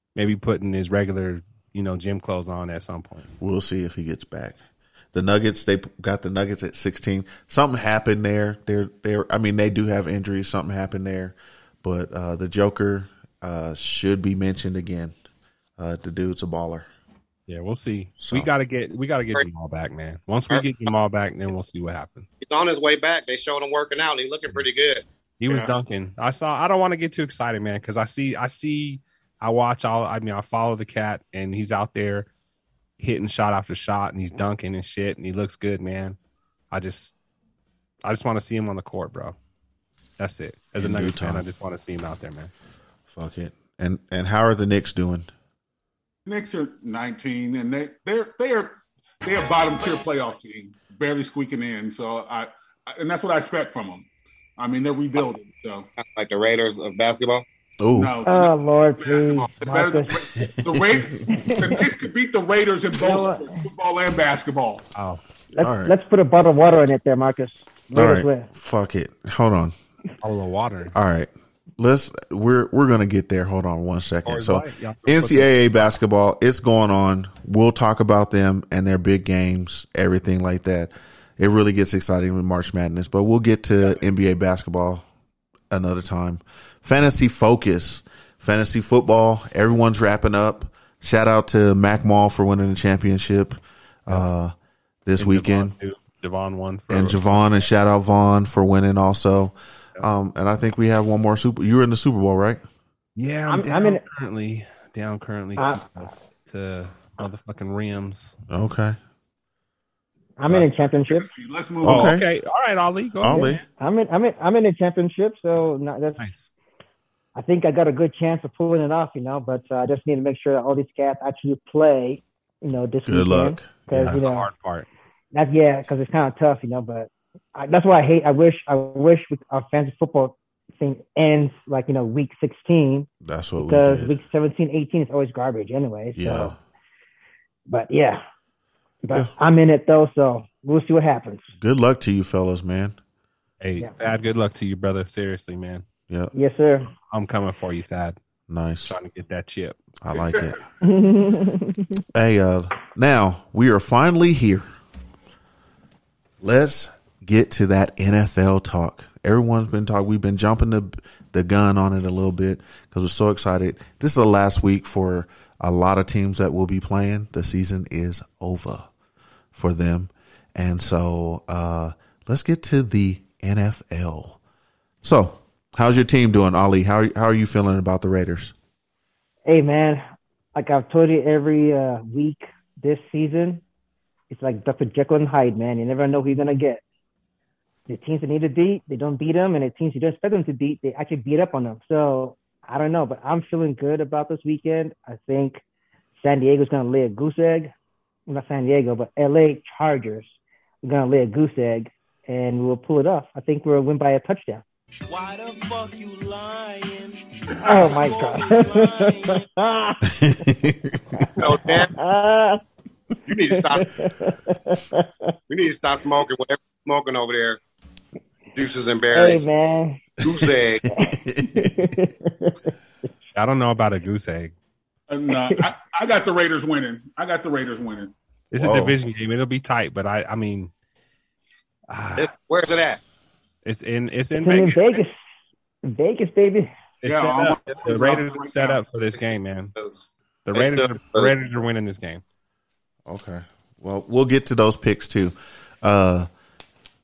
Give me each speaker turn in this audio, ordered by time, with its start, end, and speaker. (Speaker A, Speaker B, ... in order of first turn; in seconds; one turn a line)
Speaker A: 0.2-3.3
Speaker B: 3.4-4.6
Speaker B: 5.1-15.1
Speaker B: 15.8-16.9
Speaker A: 17.5-22.3
Speaker B: 18.2-18.5
Speaker C: 22.4-25.1
Speaker A: 25.4-32.3
Speaker D: 25.5-25.7
Speaker A: 33.0-36.2
Speaker A: 36.7-37.1
Speaker A: 38.0-39.4
Speaker A: 40.2-42.5
Speaker B: 40.8-41.5
Speaker B: 43.1-45.3
Speaker D: 46.3-54.1
Speaker D: 54.6-55.9
Speaker C: 56.0-57.5
Speaker B: 57.8-58.1
Speaker D: 57.9-64.8
Speaker E: 58.2-60.2
Speaker B: 60.7-61.0
Speaker E: 61.3-61.8
Speaker E: 63.0-63.6
Speaker A: 65.0-65.2
Speaker E: 65.5-68.5
Speaker B: 65.6-65.9
Speaker B: 67.9-69.7
Speaker A: 70.2-70.9
Speaker B: 70.9-85.0
Speaker A: 74.2-75.8
Speaker B: 85.7-94.5
Speaker B: 95.1-95.8
Speaker A: 95.2-97.2
Speaker B: 96.9-102.6
Speaker A: 103.2-108.4
Speaker E: 103.5-104.0
Speaker E: 105.6-105.8
Speaker B: 108.5-109.0
Speaker E: 110.4-111.3
Speaker D: 111.1-112.2
Speaker B: 111.8-112.2
Speaker A: 111.9-113.6
Speaker B: 113.2-113.6
Speaker E: 113.3-116.2
Speaker A: 116.2-116.5
Speaker E: 117.3-124.5
Speaker B: 123.1-124.2
Speaker A: 124.1-124.9
Speaker E: 125.3-133.1
Speaker B: 133.2-134.2
Speaker E: 133.6-136.6
Speaker B: 136.2-136.6
Speaker E: 137.7-138.2
Speaker E: 139.0-141.5
Speaker B: 141.6-143.0
Speaker A: 143.6-145.9
Speaker E: 146.3-146.9
Speaker A: 147.1-148.2
Speaker B: 148.5-149.0
Speaker A: 148.8-149.8
Speaker B: 150.0-150.6
Speaker D: 150.2-150.6
Speaker E: 150.8-152.0
Speaker B: 152.1-154.7
Speaker B: 156.4-168.9
Speaker B: 169.5-174.4
Speaker B: 175.0-178.5
Speaker E: 179.5-180.0
Speaker E: 180.6-183.6
Speaker E: 184.3-186.8
Speaker E: 187.9-195.6
Speaker E: 196.2-197.7
Speaker E: 198.3-204.6
Speaker F: 205.1-209.4
Speaker E: 207.6-210.0
Speaker B: 210.1-211.2
Speaker C: 211.4-211.9
Speaker E: 211.5-212.6
Speaker C: 213.3-213.9
Speaker E: 213.8-215.1
Speaker C: 215.5-217.6
Speaker C: 218.5-219.5
Speaker E: 219.1-220.0
Speaker C: 220.2-220.8
Speaker B: 220.2-220.5
Speaker E: 220.9-222.7
Speaker B: 221.1-221.9
Speaker A: 223.3-224.5
Speaker D: 225.1-228.1
Speaker A: 228.5-230.7
Speaker B: 228.6-229.0
Speaker A: 231.9-232.3
Speaker C: 232.2-233.0
Speaker A: 233.7-235.0
Speaker E: 234.4-235.2
Speaker E: 235.9-236.7
Speaker A: 237.0-239.7
Speaker D: 237.1-238.8
Speaker C: 239.2-241.3
Speaker A: 240.5-242.2
Speaker B: 243.1-246.3